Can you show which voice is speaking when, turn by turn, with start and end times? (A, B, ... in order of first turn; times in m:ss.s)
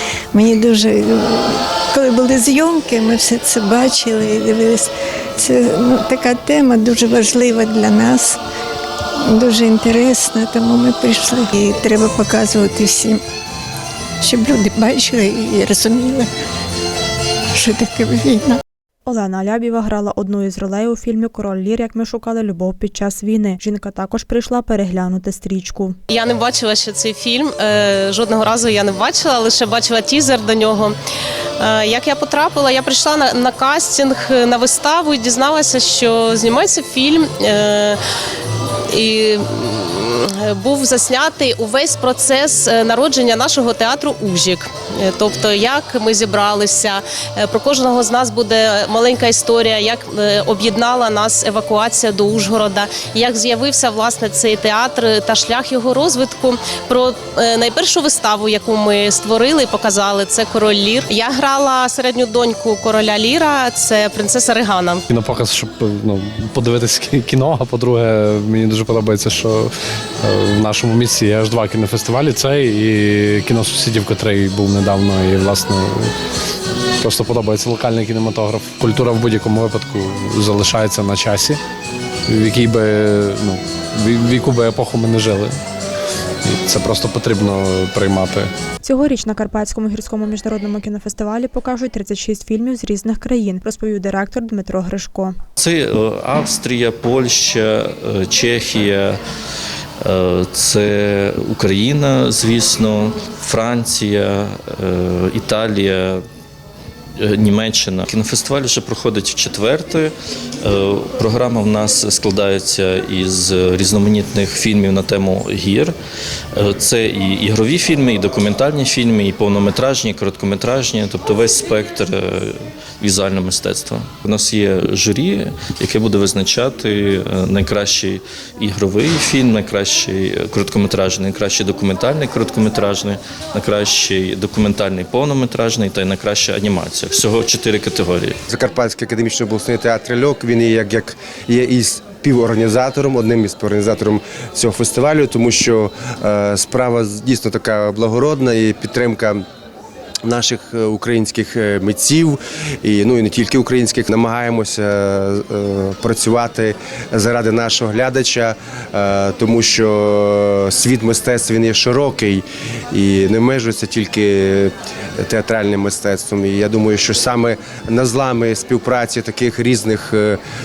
0:00.3-0:04.9 A
0:05.4-0:08.4 A
0:09.3-0:13.2 A
0:14.2-0:16.2 A
0:17.6-0:18.6 A
0:19.1-0:26.0 B
0:26.1-0:31.0 C
0:31.6-0:38.0 C
0:38.9-1:05.0 C
1:05.1-1:09.7 D
1:10.2-1:16.1 D
1:17.0-1:21.6 D
1:22.3-1:25.6 D
1:26.4-1:28.5 D
1:28.8-1:35.4 B
1:35.6-1:39.2 E
1:40.0-1:46.2 E
1:47.2-1:55.9 E
1:56.6-2:18.4 E
2:18.5-2:29.4 F
2:30.2-2:50.4 F